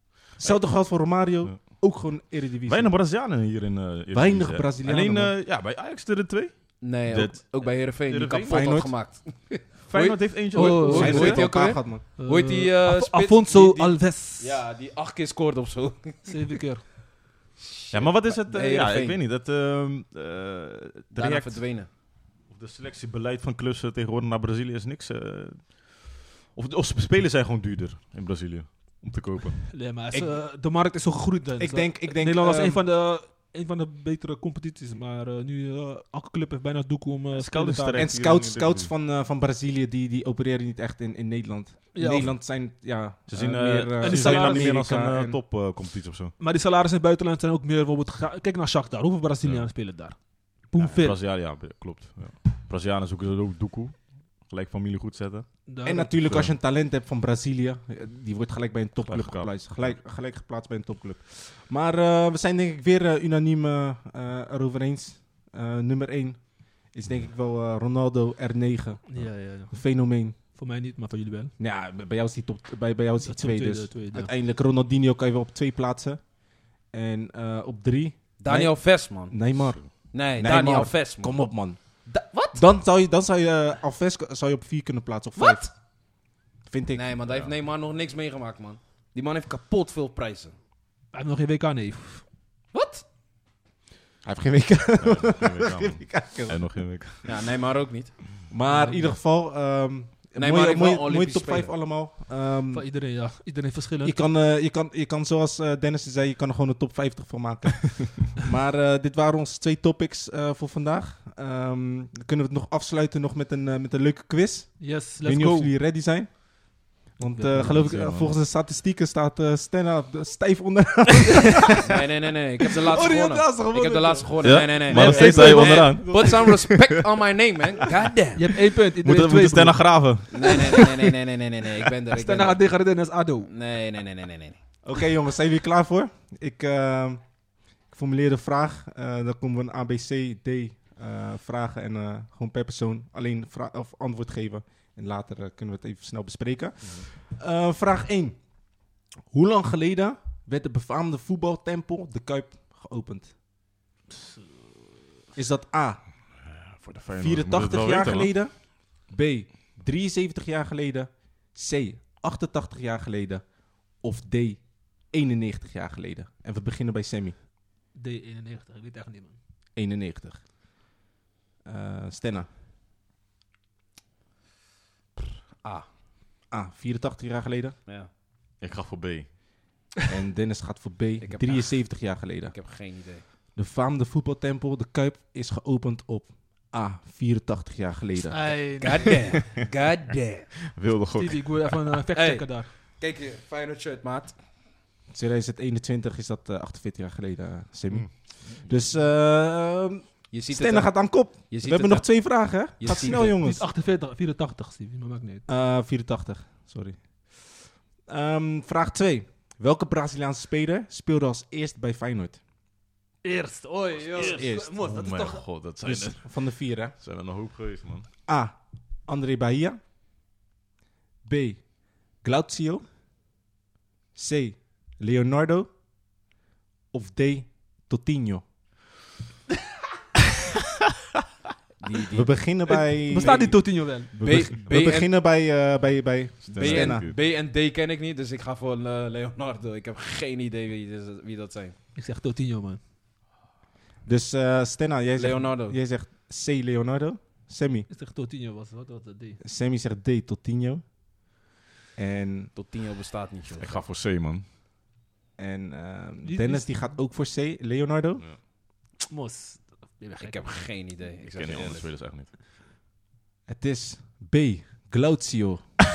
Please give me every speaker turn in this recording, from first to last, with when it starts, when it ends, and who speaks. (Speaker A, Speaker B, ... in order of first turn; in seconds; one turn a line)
Speaker A: 0.3-2.9
Speaker B: 2.7-8.7
Speaker A: 4.1-5.3
Speaker C: 6.8-16.4
Speaker A: 8.5-8.9
Speaker B: 9.9-11.4
Speaker D: 10.5-11.4
Speaker A: 10.8-12.0
Speaker D: 12.2-14.5
Speaker D: 16.2-16.9
Speaker C: 17.6-19.2
Speaker B: 17.9-21.6
Speaker C: 21.1-21.9
Speaker B: 22.5-29.7
Speaker D: 29.7-38.0
Speaker A: 30.1-30.4
Speaker A: 31.6-32.8
Speaker B: 37.3-38.9
Speaker A: 38.0-45.4
Speaker D: 41.9-42.3
Speaker B: 43.3-46.3
Speaker D: 44.0-44.7
Speaker D: 46.4-50.2
Speaker B: 49.4-49.7
Speaker D: 50.7-51.2
Speaker B: 50.8-55.5
Speaker D: 55.7-56.1
Speaker A: 55.8-70.4
Speaker B: 56.2-56.5
Speaker B: 59.0-60.0
Speaker D: 69.0-69.8
Speaker D: 70.4-71.5
Speaker A: 71.6-76.2
Speaker D: 73.2-74.3
Speaker A: 76.9-82.0
Speaker C: 78.4-79.3
Speaker C: 80.1-81.5
Speaker C: 82.0-82.6
Speaker A: 82.5-85.6
Speaker C: 85.4-85.7
Speaker A: 86.7-87.0
Speaker C: 86.9-90.5
Speaker B: 87.2-87.5
Speaker D: 91.1-92.2
Speaker C: 92.7-93.0
Speaker A: 94.2-96.8
Speaker B: 95.0-97.4
Speaker C: 97.2-98.2
Speaker A: 98.5-102.8
Speaker D: 98.7-99.0
Speaker C: 100.3-101.7
Speaker D: 102.7-104.2
Speaker A: 104.0-116.5
Speaker D: 114.8-115.7
Speaker A: 117.0-122.0
Speaker D: 117.2-118.0
Speaker B: 117.8-118.3
Speaker C: 121.8-128.5
Speaker D: 122.8-124.4
Speaker B: 124.4-126.5
Speaker D: 124.9-126.2
Speaker A: 124.9-126.7
Speaker D: 128.3-129.9
Speaker B: 128.9-130.9
Speaker C: 130.3-132.6
Speaker D: 130.6-130.9
Speaker D: 132.1-133.5
Speaker C: 133.4-134.6
Speaker A: 134.8-137.2
Speaker A: 137.9-148.4
Speaker A: 149.3-153.3
Speaker A: 155.3-156.0
Speaker B: 156.4-158.3
Speaker A: 157.2-163.4
Speaker A: 164.0-167.3
Speaker D: 167.9-169.4
Speaker A: 169.8-170.4
Speaker A: 171.6-172.5
Speaker A: 176.5-177.8
Speaker B: 178.6-179.3
Speaker A: 180.1-182.5
Speaker C: 181.2-181.9
Speaker C: 182.5-183.2
Speaker A: 183.6-189.0
Speaker D: 188.3-189.2
Speaker C: 188.8-190.5
Speaker B: 190.7-191.9
Speaker D: 191.1-192.7
Speaker C: 192.1-194.3
Speaker A: 195.1-203.6
Speaker C: 200.3-202.1
Speaker C: 202.8-203.2
Speaker D: 202.9-205.5
Speaker A: 205.5-212.4
Speaker D: 213.2-215.4
Speaker A: 214.2-214.7
Speaker B: 214.2-216.3
Speaker A: 215.8-216.9
Speaker B: 216.9-218.1
Speaker A: 218.3-219.8
Speaker A: 221.2-221.6
Speaker A: 222.2-222.8
Speaker A: 224.1-225.7
Speaker A: 226.9-228.4
Speaker C: 231.8-232.3
Speaker A: 232.1-233.6
Speaker D: 232.7-234.1
Speaker B: 234.2-234.6
Speaker A: 234.2-237.1
Speaker C: 234.2-235.1
Speaker B: 236.5-237.1
Speaker C: 236.5-241.8
Speaker D: 241.9-242.8
Speaker A: 244.1-247.9
Speaker C: 245.2-245.8
Speaker D: 247.9-249.4
Speaker A: 249.4-250.8
Speaker A: 252.0-252.5
Speaker C: 252.5-253.8
Speaker B: 253.6-254.4
Speaker A: 255.4-258.2
Speaker D: 256.2-256.8
Speaker D: 259.1-260.6
Speaker C: 260.2-261.9
Speaker B: 261.2-262.3
Speaker A: 263.5-265.6